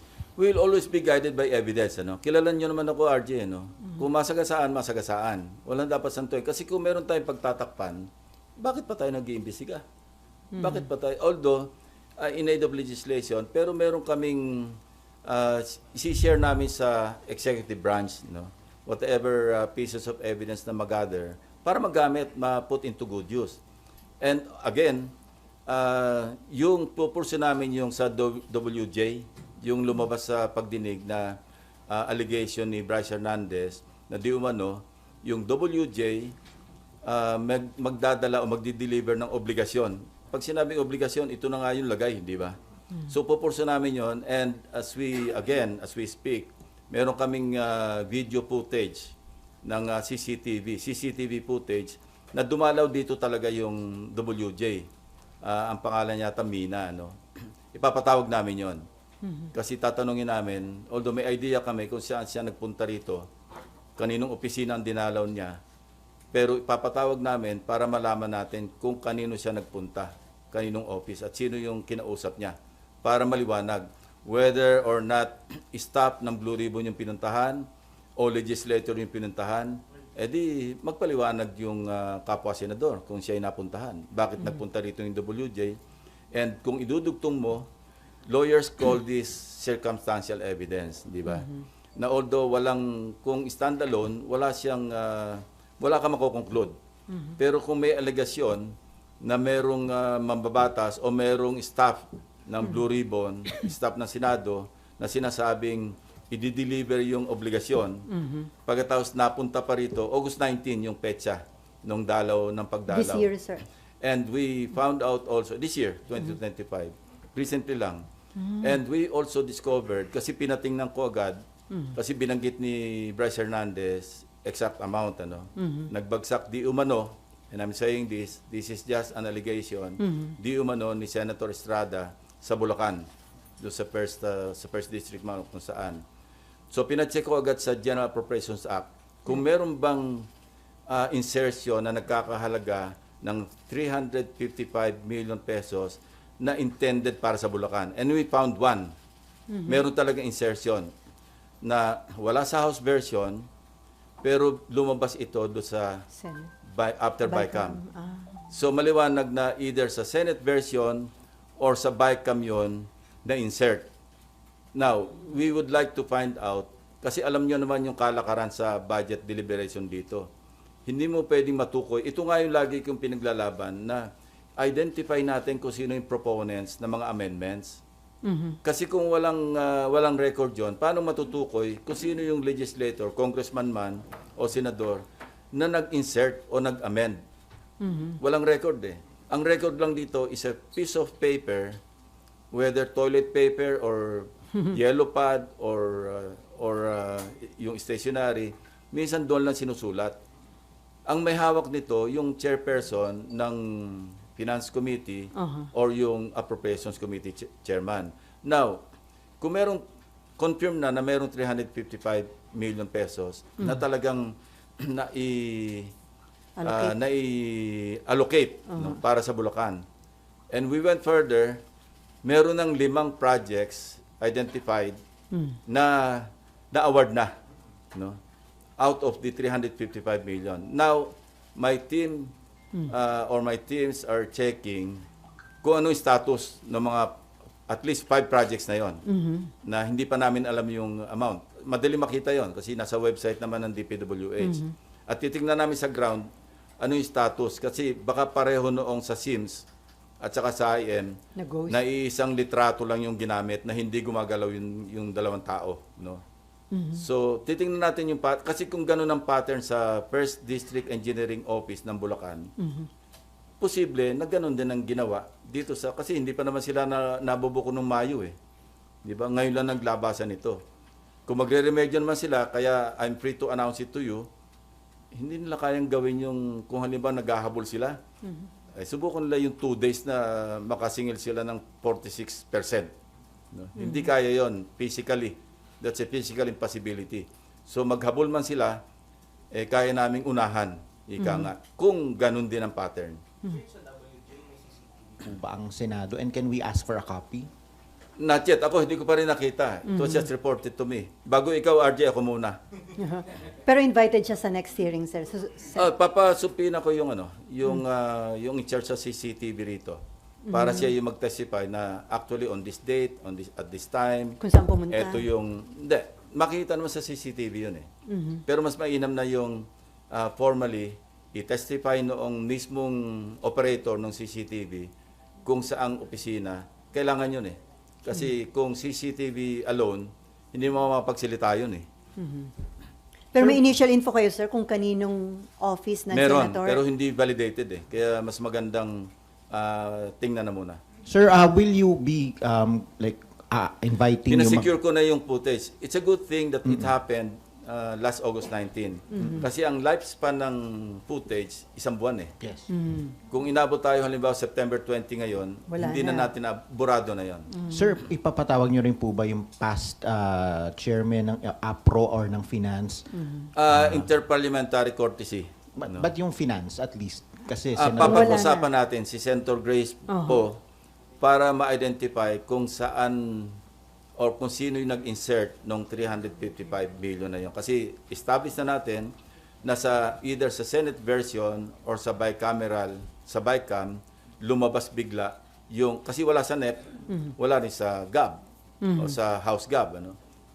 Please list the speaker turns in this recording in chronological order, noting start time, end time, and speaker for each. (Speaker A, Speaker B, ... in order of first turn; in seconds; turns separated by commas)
Speaker A: 0.3-9.8, Speaker B: 10.5-10.8, Speaker A: 10.6-23.6, Speaker A: 24.2-25.1, Speaker A: 25.6-36.3, Speaker A: 37.0-42.5, Speaker A: 43.1-54.9, Speaker A: 55.4-57.2, Speaker A: 57.7-58.8, Speaker B: 59.2-59.5, Speaker A: 59.5-63.3, Speaker A: 64.0-65.6, Speaker A: 66.3-77.7, Speaker A: 78.2-85.8, Speaker A: 86.3-87.7, Speaker A: 88.3-96.7, Speaker B: 91.3-91.6, Speaker B: 97.1-97.3, Speaker A: 97.4-108.1, Speaker B: 108.1-108.5, Speaker A: 108.7-113.3, Speaker B: 112.9-113.6, Speaker A: 114.0-118.0, Speaker B: 118.4-118.8, Speaker A: 118.6-121.4, Speaker A: 121.9-133.1, Speaker B: 125.6-125.9, Speaker B: 130.0-130.3, Speaker A: 133.6-136.0, Speaker A: 136.7-140.3, Speaker A: 140.9-148.9, Speaker B: 149.5-149.8, Speaker A: 149.7-150.9, Speaker A: 151.6-153.4, Speaker A: 154.2-156.1, Speaker B: 156.1-156.5, Speaker A: 156.7-157.8, Speaker B: 157.2-158.4, Speaker A: 158.5-163.9, Speaker A: 164.7-170.3, Speaker A: 170.8-177.8, Speaker B: 178.2-178.6, Speaker A: 178.6-187.2, Speaker B: 187.8-188.2, Speaker A: 188.2-191.8, Speaker A: 192.5-200.2, Speaker A: 201.1-208.8, Speaker B: 205.3-205.7, Speaker A: 209.4-209.8, Speaker A: 210.4-215.9, Speaker B: 216.6-216.9, Speaker A: 216.6-219.8, Speaker B: 218.7-219.0, Speaker A: 220.5-221.6, Speaker A: 222.2-225.0, Speaker B: 225.3-225.6, Speaker A: 225.7-227.3, Speaker A: 228.8-232.3, Speaker A: 232.8-235.0, Speaker A: 235.6-237.2, Speaker A: 237.7-239.0, Speaker B: 239.1-239.5, Speaker A: 239.6-246.3, Speaker B: 244.4-244.7, Speaker A: 246.8-249.7, Speaker A: 250.2-251.2, Speaker B: 251.3-251.8, Speaker A: 251.7-256.2, Speaker B: 256.7-257.0, Speaker A: 256.9-262.5, Speaker B: 262.6-262.9, Speaker A: 263.6-268.3, Speaker A: 269.0-270.6, Speaker A: 271.3-274.3, Speaker A: 275.1-278.0, Speaker B: 278.2-278.5, Speaker A: 278.8-282.9, Speaker A: 283.5-288.8, Speaker B: 283.8-284.1, Speaker A: 289.5-293.2, Speaker B: 291.2-291.5, Speaker C: 295.2-297.5, Speaker A: 298.2-302.6, Speaker B: 299.9-300.2, Speaker B: 303.0-305.9, Speaker A: 305.7-317.9, Speaker B: 310.5-310.9, Speaker B: 314.4-315.2, Speaker B: 318.1-318.4, Speaker A: 318.4-324.9, Speaker A: 325.4-331.9, Speaker B: 332.2-332.5, Speaker B: 333.3-336.8, Speaker A: 336.1-340.8, Speaker C: 341.1-344.7, Speaker A: 344.3-352.3, Speaker B: 349.1-349.5, Speaker C: 352.4-352.7, Speaker B: 352.7-353.2, Speaker A: 353.3-357.6, Speaker B: 355.7-356.3, Speaker B: 357.5-358.0, Speaker C: 357.7-363.1, Speaker B: 363.1-363.5, Speaker A: 363.5-366.1, Speaker C: 363.7-364.1, Speaker C: 365.8-368.4, Speaker A: 367.8-370.6, Speaker B: 368.0-368.7, Speaker B: 370.1-370.4, Speaker A: 371.2-373.6, Speaker A: 374.2-379.1, Speaker A: 379.6-388.4, Speaker B: 388.8-389.1, Speaker A: 388.9-390.2